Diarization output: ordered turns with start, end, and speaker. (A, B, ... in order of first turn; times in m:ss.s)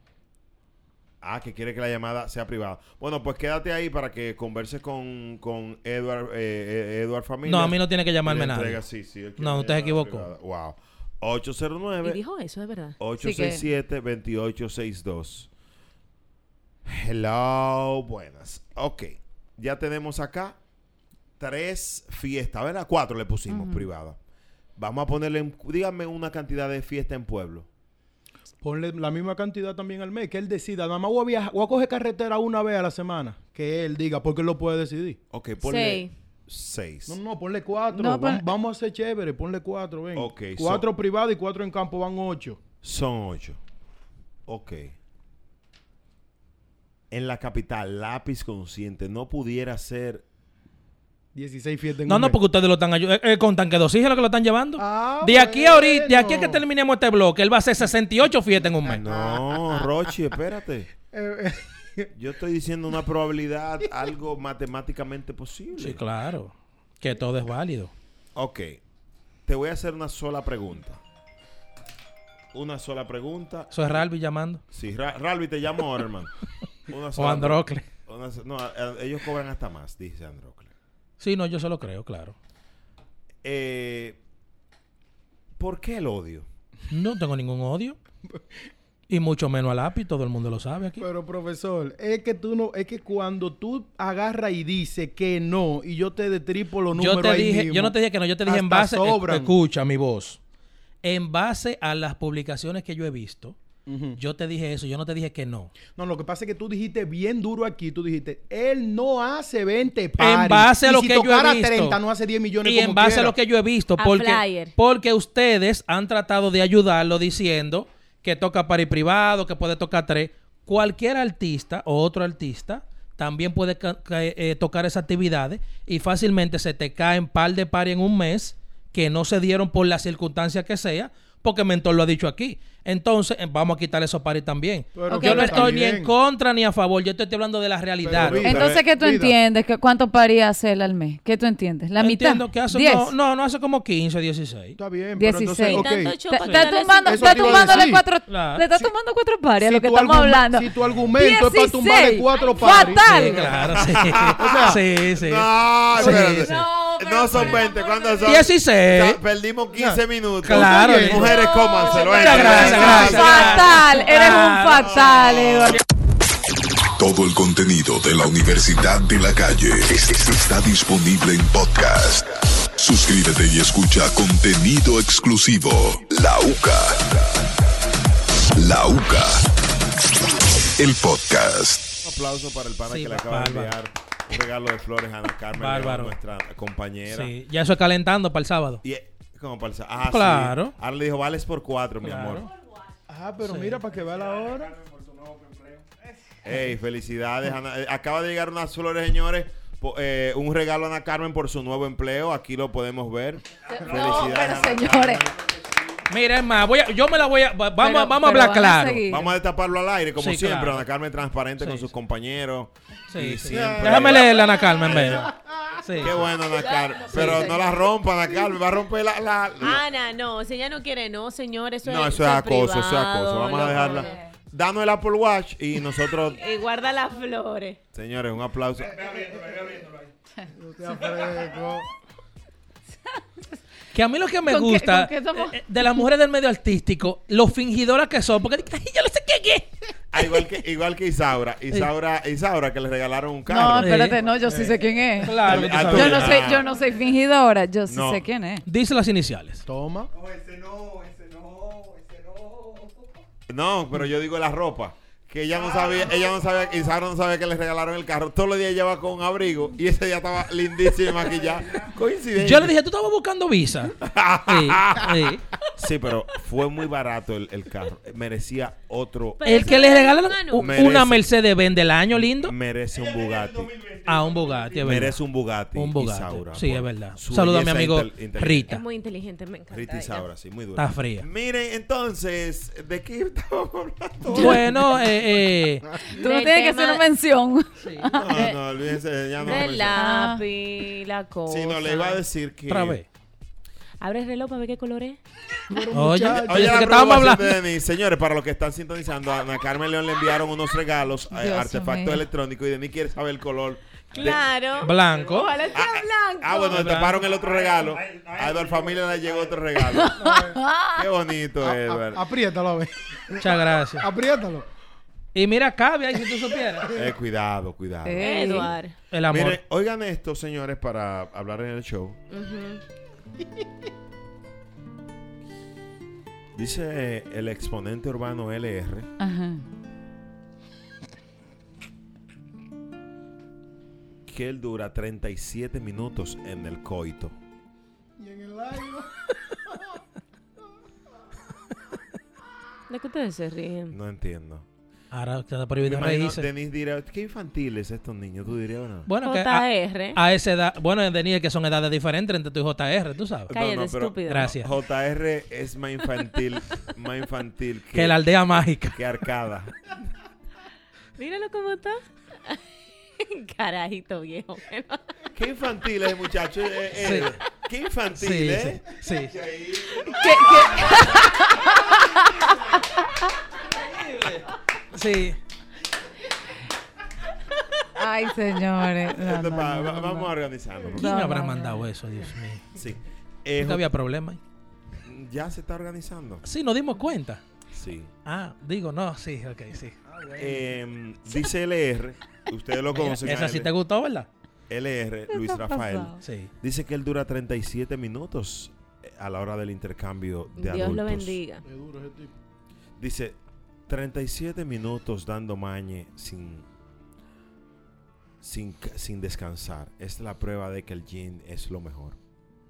0:01.2-0:12.2 A
0:07.4-0:08.8 B
0:09.4-0:10.3 B
0:12.0-0:13.0 C
0:13.0-0:15.5 A
0:13.2-0:13.6 D
0:16.8-0:20.6 A
0:21.4-0:24.2 A
0:23.5-0:23.9 D
0:24.8-0:27.7 A
0:28.6-0:35.2 E
0:35.3-0:37.2 A
0:35.6-0:36.1 C
0:37.1-0:42.6 E
0:37.9-0:38.4 D
0:40.2-0:40.8 A
0:42.8-0:43.6 A
0:44.5-0:45.0 A
0:47.1-0:50.2 A
0:51.4-0:52.4 E
0:52.1-0:59.0 B
0:54.8-0:56.6 E
0:58.9-1:00.9 A
0:59.1-0:59.9 E
1:01.1-1:02.1 E
1:02.1-1:06.0 A
1:05.8-1:07.9 B
1:08.4-1:08.8 A
1:09.5-1:11.0 A
1:12.5-1:13.8 A
1:13.7-1:14.6 B
1:14.7-1:16.4 A
1:16.9-1:20.7 A
1:17.2-1:17.9 B
1:21.2-1:22.4 B
1:23.4-1:24.2 A
1:25.6-1:26.5 A
1:26.9-1:28.0 B
1:29.1-1:31.0 B
1:31.0-1:39.5 E
1:37.0-1:40.4 B
1:41.0-1:43.6 B
1:43.9-1:44.2 E
1:44.2-1:45.7 B
1:45.9-1:53.4 E
1:50.2-1:52.0 B
1:52.6-2:18.5 B
1:54.0-1:54.7 C
2:14.9-2:16.1 E
2:15.1-2:15.7 D
2:18.0-2:19.4 E
2:18.2-2:18.8 A
2:18.3-2:23.1 D
2:22.0-2:24.8 B
2:24.8-2:26.3 E
2:25.2-2:33.8 D
2:25.6-2:28.0 C
2:26.9-2:28.2 E
2:28.3-2:28.7 B
2:29.6-2:34.8 E
2:32.4-2:33.0 C
2:33.0-2:36.7 B
2:34.1-2:43.7 A
2:36.0-2:37.2 D
2:37.3-2:37.6 B
2:38.2-2:39.2 B
2:39.7-2:41.3 E
2:40.4-2:41.4 B
2:41.6-2:42.7 C
2:41.8-2:45.8 D
2:42.0-2:45.1 B
2:42.5-2:43.1 E
2:44.8-2:45.8 A
2:47.0-2:57.3 F
2:58.5-2:59.5 F
3:00.8-3:01.9 F
3:02.0-3:07.3 A
3:02.9-3:03.7 B
3:05.6-3:06.1 B
3:07.1-3:08.8 B
3:08.8-3:12.4 A
3:10.1-3:10.7 B
3:12.0-3:12.5 B
3:13.1-3:14.8 E
3:13.4-3:13.8 B
3:16.4-3:25.4 A
3:23.7-3:25.3 D
3:26.1-3:29.1 B
3:27.8-3:29.3 D
3:29.0-3:35.3 A
3:30.2-3:30.8 B
3:31.6-3:31.9 B
3:33.1-3:35.3 B
3:33.5-3:34.1 E
3:35.8-3:36.1 B
3:36.0-3:39.8 A
3:36.5-3:37.7 C
3:37.1-3:37.5 B
3:39.6-3:44.2 C
3:41.8-3:46.4 A
3:43.6-3:44.2 D
3:46.4-3:47.8 C
3:47.9-3:49.6 A
3:50.6-3:51.9 E
3:53.9-3:59.7 B
3:54.5-3:56.0 D
4:00.1-4:04.1 A
4:03.5-4:08.6 D
4:03.8-4:04.2 B
4:04.3-4:05.5 E
4:05.2-4:06.5 B
4:05.4-4:06.7 A
4:07.9-4:08.2 A
4:08.7-4:09.6 B
4:09.7-4:10.1 E
4:13.5-4:22.7 A
4:22.4-4:24.0 B
4:24.0-4:30.0 A
4:24.5-4:25.4 B
4:29.4-4:30.8 C
4:29.4-4:32.5 B
4:30.6-4:31.2 A
4:32.3-4:33.8 A
4:34.1-4:35.2 B
4:34.8-4:38.7 A
4:35.7-4:38.8 B
4:38.7-4:40.3 C
4:39.7-4:44.9 A
4:40.8-4:41.2 B
4:44.3-4:45.8 B
4:46.1-4:47.1 C
4:46.2-4:48.6 D
4:47.8-4:48.1 B
4:48.1-4:50.0 A
4:49.4-4:52.2 C
4:49.9-4:50.4 D
4:51.5-4:53.0 A
4:52.7-4:53.1 B
4:54.0-4:55.2 C
4:55.7-4:57.2 E
4:55.9-4:57.5 B
4:56.4-5:04.4 A
5:01.3-5:02.2 D
5:04.1-5:06.8 C
5:04.8-5:05.6 B
5:05.7-5:10.4 A
5:06.7-5:07.2 B
5:09.9-5:11.1 D
5:10.2-5:10.6 E
5:11.0-5:12.2 A
5:11.6-5:14.7 E
5:13.4-5:14.1 B
5:15.4-5:16.9 B
5:16.9-5:18.7 A
5:18.0-5:18.8 D
5:18.2-5:19.0 C
5:19.1-5:19.6 B
5:19.3-5:22.2 A
5:22.3-5:22.8 C
5:26.5-5:29.1 A
5:29.2-5:29.6 D
5:34.3-5:37.4 A
5:38.2-5:39.3 E
5:42.9-5:44.0 C
5:43.9-5:44.7 A
5:45.1-5:46.4 B
5:45.8-5:49.1 A
5:49.1-5:53.5 B
5:49.2-5:50.2 C
5:53.5-5:58.2 A
5:53.5-5:54.5 C
5:54.3-5:54.7 B
5:57.9-5:59.0 B
5:58.9-5:59.7 A
6:01.2-6:02.6 C
6:03.2-6:05.0 C
6:05.3-6:10.1 A
6:07.0-6:07.3 B
6:08.2-6:09.3 B
6:09.9-6:10.8 C
6:10.2-6:12.7 D
6:14.0-6:14.4 B
6:14.9-6:15.4 B
6:18.0-6:20.3 D
6:19.1-6:21.1 A
6:21.0-6:21.8 D
6:21.0-6:22.6 B
6:22.8-6:23.9 A
6:23.6-6:24.4 B
6:25.0-6:26.4 A
6:26.4-6:27.4 B
6:27.7-6:28.1 A
6:28.3-6:30.0 B
6:30.1-6:30.6 E
6:30.4-6:33.7 A
6:32.9-6:34.3 B
6:34.7-6:41.4 A
6:35.3-6:36.2 C
6:36.2-6:36.5 B
6:40.6-6:41.6 C
6:41.6-6:42.3 E
6:43.0-6:46.7 A
6:48.4-6:52.2 A